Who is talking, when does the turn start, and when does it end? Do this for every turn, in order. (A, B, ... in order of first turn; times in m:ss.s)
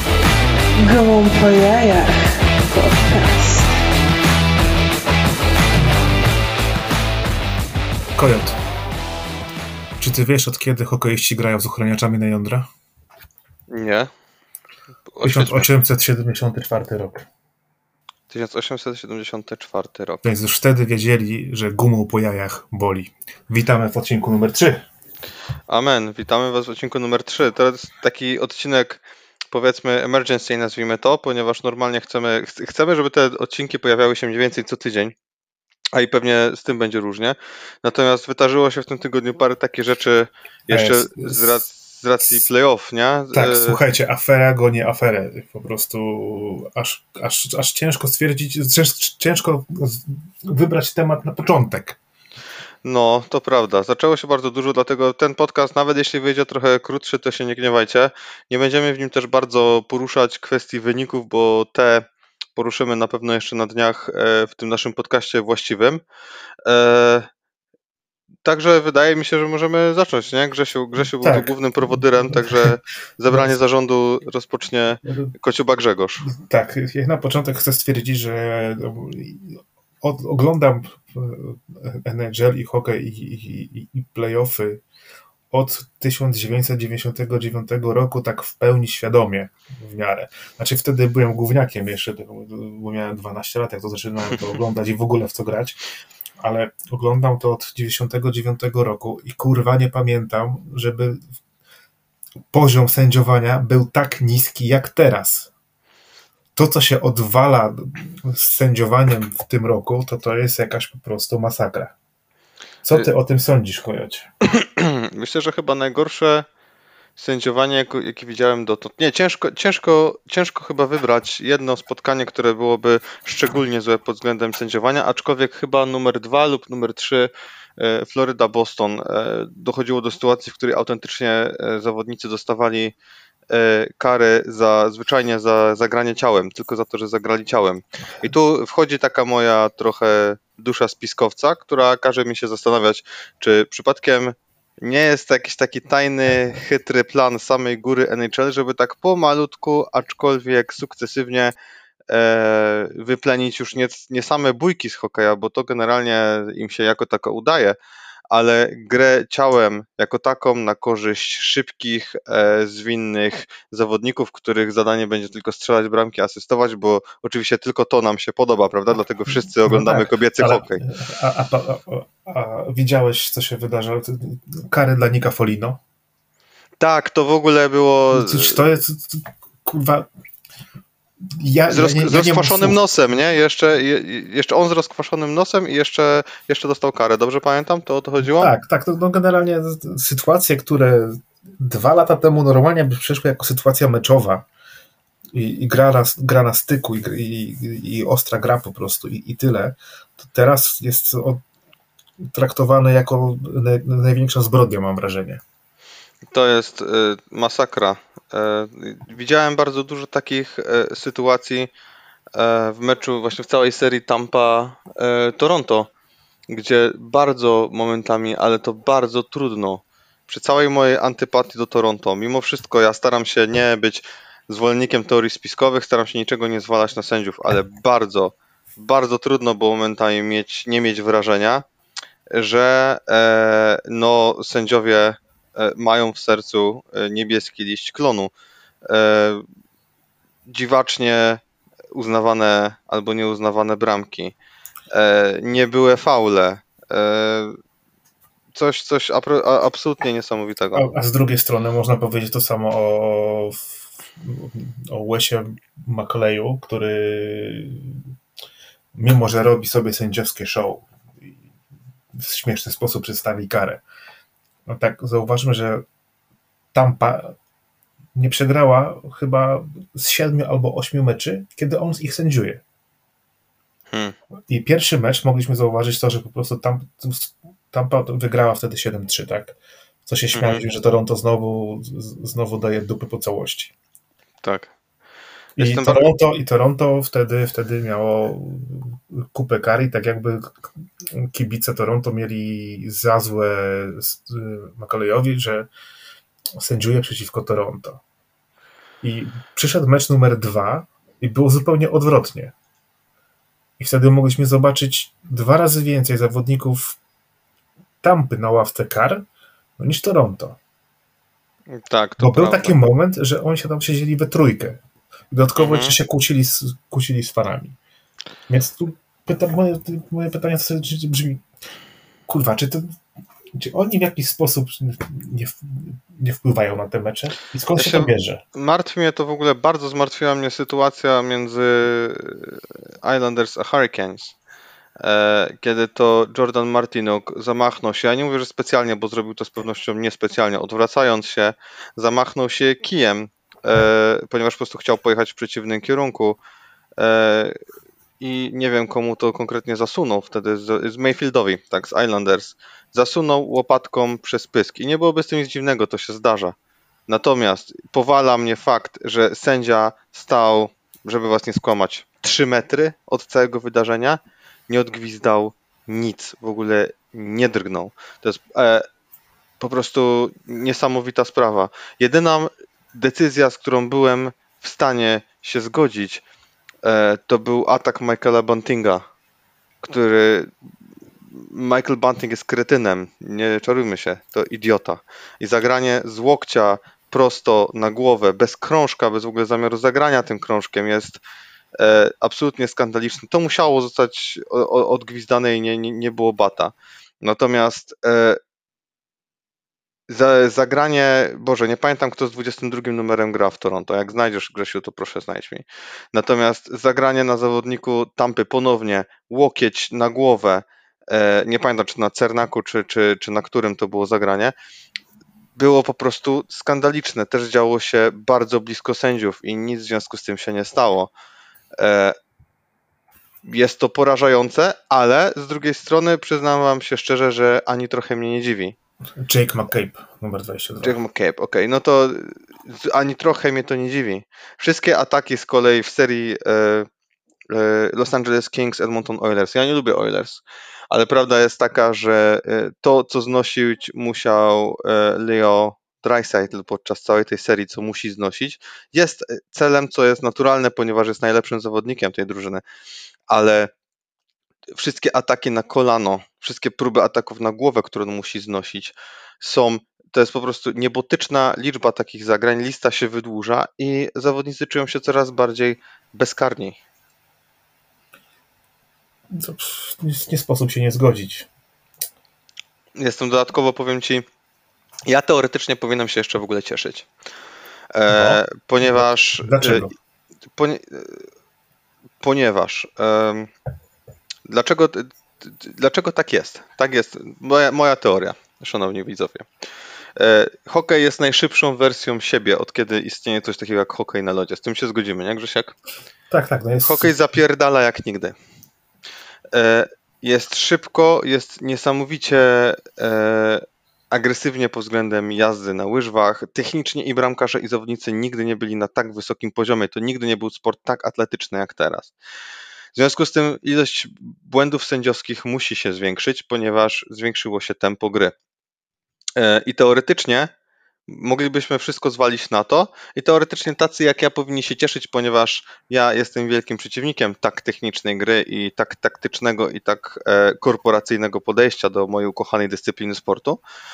0:00.8-0:03.8 A
0:08.2-0:08.6 B
0:10.0-0:12.7 B
0:13.7-0:14.1 C
0:15.1-0:15.6 C
0:15.2-0:17.2 B
0:18.3-0:20.3 C
0:20.2-0:24.8 B
0:25.7-0:35.1 C
0:35.9-0:43.8 C
0:40.7-0:41.6 B
0:43.3-0:52.0 B
0:52.8-1:06.0 C
1:06.6-1:07.3 C
1:08.4-1:16.2 C
1:11.1-1:12.8 B
1:13.3-1:13.6 B
1:15.0-1:15.3 B
1:16.2-1:24.8 B
1:25.5-1:35.8 B
1:36.4-1:41.2 B
1:42.5-1:45.5 B
1:46.5-1:51.9 B
1:52.8-1:54.3 B
1:54.4-1:56.4 C
1:57.2-2:12.9 C
2:13.5-2:31.5 C
2:32.1-2:37.8 C
2:38.3-2:50.8 C
2:49.6-2:55.8 B
2:56.8-2:58.6 C
2:58.1-3:00.1 B
3:01.3-3:02.8 B
3:01.7-3:08.5 C
3:08.2-3:14.4 B
3:15.3-3:21.4 B
3:22.3-3:25.4 B
3:26.3-3:31.7 C
3:32.3-3:35.9 C
3:36.5-3:51.6 C
3:52.3-3:58.3 C
3:58.8-3:59.4 C
4:00.5-4:01.4 C
4:01.9-4:04.3 C
4:04.9-4:07.6 C
4:08.5-4:10.9 C
4:10.7-4:18.0 B
4:18.9-4:21.3 B
4:22.1-4:23.8 B
4:24.7-4:25.8 B
4:26.7-4:27.3 B
4:28.1-4:32.6 B
4:34.5-4:39.5 B
4:40.0-4:43.7 B
4:40.3-4:40.6 C
4:44.4-4:44.7 C
4:45.6-4:55.7 B
4:45.6-4:46.1 C
4:56.6-4:58.0 B
4:59.0-5:02.5 B
5:03.8-5:07.0 B
5:08.0-5:09.2 B
5:09.8-5:10.6 B
5:11.7-5:12.8 C
5:12.2-5:17.8 B
5:15.6-5:15.9 C
5:18.5-5:21.4 B
5:22.3-5:23.0 B
5:23.5-5:28.4 B
5:27.8-5:34.3 C
5:35.0-5:46.4 C
5:47.0-5:47.5 C
5:48.2-5:56.5 C
5:57.1-6:08.8 C
6:09.6-6:16.2 C
6:16.8-6:19.0 C
6:19.8-6:20.5 C
6:21.3-6:31.2 C
6:31.8-6:38.4 C
6:40.1-6:54.5 C
6:55.6-7:01.1 C
7:01.8-7:02.2 C
7:03.4-7:08.7 C
7:09.2-7:11.0 B
7:10.8-7:16.9 C
7:17.5-7:32.6 C
7:33.3-7:33.7 C
7:34.7-7:46.8 C
7:49.3-7:51.5 B
7:53.0-7:54.2 C
7:55.1-7:57.1 C
7:57.9-7:59.8 C
7:58.1-7:59.9 B
8:00.6-8:01.2 C
8:02.2-8:03.5 C
8:04.4-8:09.4 C
8:10.2-8:15.7 C
8:16.3-8:17.1 B
8:16.8-8:18.3 C
8:19.5-8:32.1 C
8:32.9-8:38.3 C
8:39.4-8:40.5 C
8:41.1-8:53.6 C